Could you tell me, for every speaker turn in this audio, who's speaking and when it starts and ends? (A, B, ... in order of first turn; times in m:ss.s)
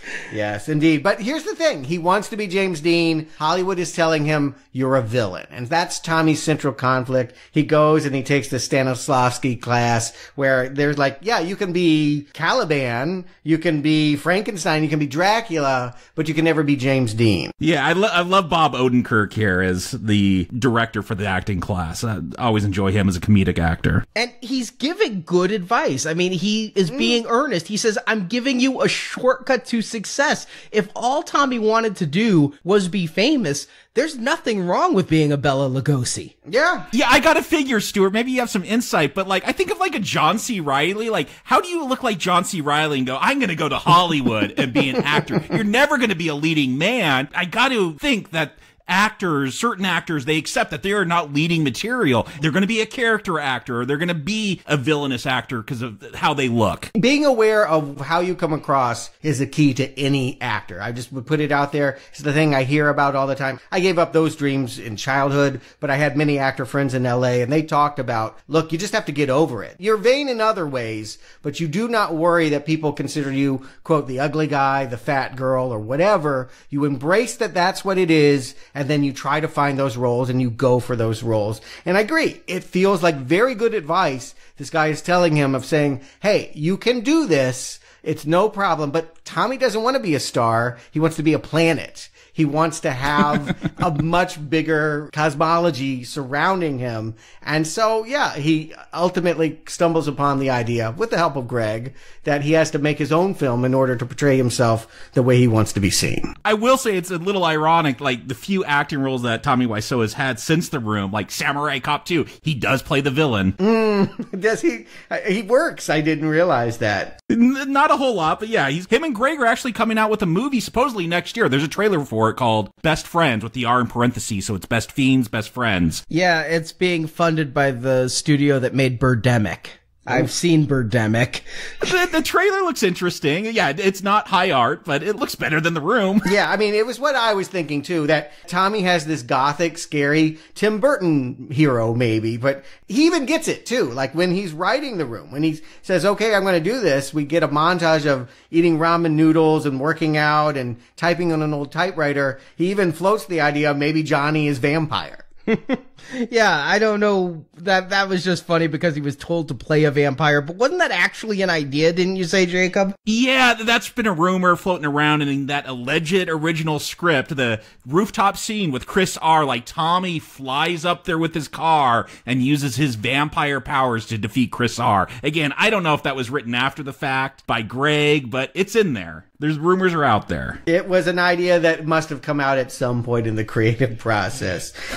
0:00.3-0:17.5 A
0:17.6-0:24.0 B
0:24.1-0:36.3 C
0:26.9-0:27.2 A
0:36.4-0:36.9 A
0:36.9-0:56.9 B
0:57.0-1:46.3 A
1:46.4-1:53.5 B
1:53.6-1:57.2 A
1:57.3-2:06.0 B
2:06.1-2:11.4 C
2:11.8-2:16.3 B
2:16.2-2:35.2 A
2:35.5-2:42.9 C
2:43.0-3:00.6 B
3:00.7-3:04.7 A